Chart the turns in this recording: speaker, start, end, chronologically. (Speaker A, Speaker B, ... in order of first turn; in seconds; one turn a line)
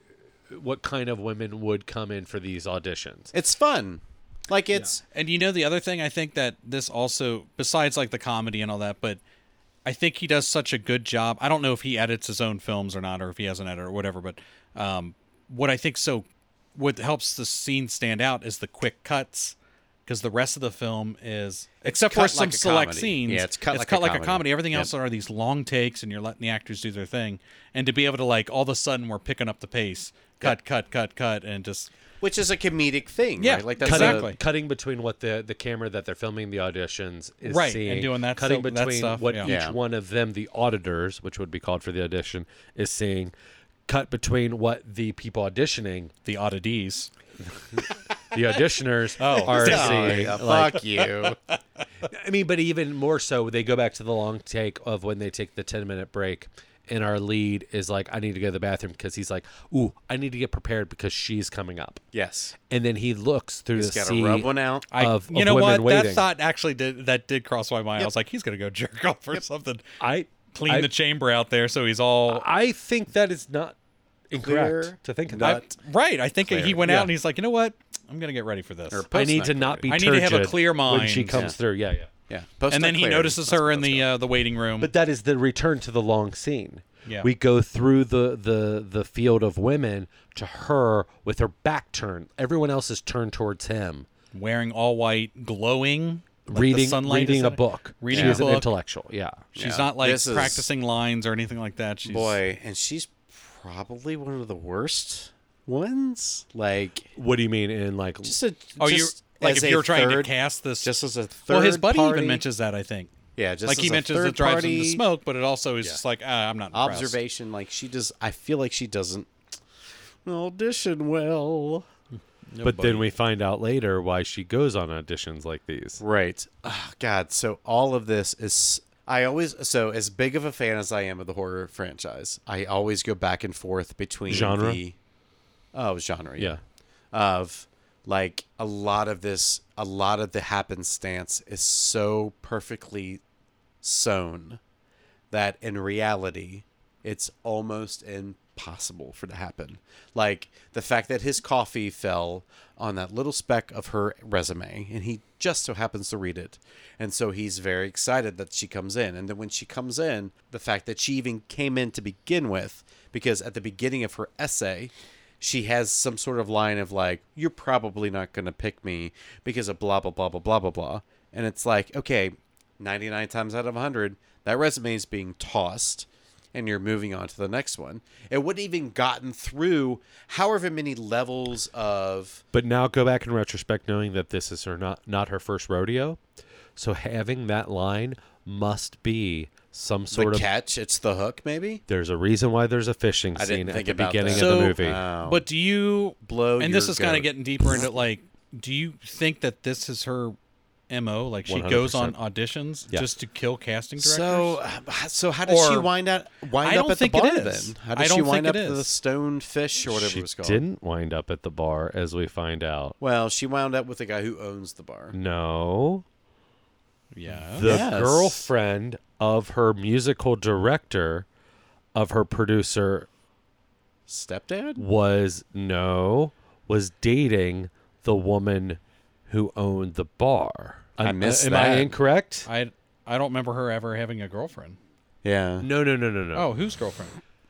Speaker A: 0.5-3.3
Speaker B: 3.3-5.0
Speaker C: 5.1-9.2
Speaker C: 9.8-19.5
Speaker C: 20.1-31.9
Speaker B: 21.8-24.9
Speaker B: 32.2-34.3
Speaker C: 33.4-34.4
Speaker A: 33.8-43.3
Speaker C: 37.4-39.5
Speaker B: 39.4-39.7
Speaker A: 43.9-46.1
Speaker C: 46.2-47.1
Speaker A: 47.4-50.8
Speaker C: 49.2-50.4
Speaker B: 49.5-51.4
Speaker A: 52.1-62.0
Speaker B: 62.1-62.5
Speaker A: 62.7-66.2
Speaker B: 63.7-64.9
Speaker C: 64.9-69.8
Speaker A: 70.0-70.9
Speaker C: 70.5-72.5
Speaker A: 72.3-73.8
Speaker A: 74.3-75.6
Speaker B: 74.3-75.7
Speaker C: 75.4-79.0
Speaker B: 76.4-77.1
Speaker B: 78.9-79.9
Speaker A: 79.1-82.1
Speaker C: 79.9-81.4
Speaker B: 82.3-84.1
Speaker C: 82.7-84.9
Speaker A: 84.8-94.1
Speaker C: 94.3-98.7
Speaker A: 96.5-99.5
Speaker B: 98.1-98.4
Speaker C: 99.5-102.4
Speaker B: 99.5-100.7
Speaker B: 102.0-107.1
Speaker A: 107.2-108.3
Speaker B: 108.2-112.4
Speaker C: 108.8-113.1
Speaker B: 113.3-115.0
Speaker C: 113.7-117.2
Speaker B: 116.7-119.3
Speaker B: 120.2-121.8
Speaker C: 122.5-123.0
Speaker A: 122.6-126.0
Speaker B: 126.0-134.9
Speaker A: 134.3-134.8
Speaker B: 135.7-136.6
Speaker B: 137.1-143.2
Speaker B: 143.8-144.6
Speaker B: 145.3-182.4
Speaker A: 182.5-186.2
Speaker A: 186.8-190.5
Speaker B: 190.1-191.8
Speaker A: 191.9-195.0
Speaker B: 193.3-195.4
Speaker C: 194.3-200.3
Speaker B: 196.2-197.3
Speaker C: 200.9-204.6
Speaker A: 201.4-202.2
Speaker B: 204.0-210.6
Speaker C: 205.5-205.9
Speaker C: 206.6-208.9
Speaker A: 209.8-212.9
Speaker B: 213.0-215.1
Speaker A: 215.1-216.0
Speaker C: 217.1-217.8
Speaker A: 217.3-221.3
Speaker B: 217.6-218.5
Speaker A: 221.9-223.1
Speaker B: 224.1-224.8
Speaker A: 224.8-232.5
Speaker B: 231.0-231.9
Speaker C: 232.5-234.8
Speaker B: 235.2-235.7
Speaker A: 235.6-236.5
Speaker C: 236.3-237.2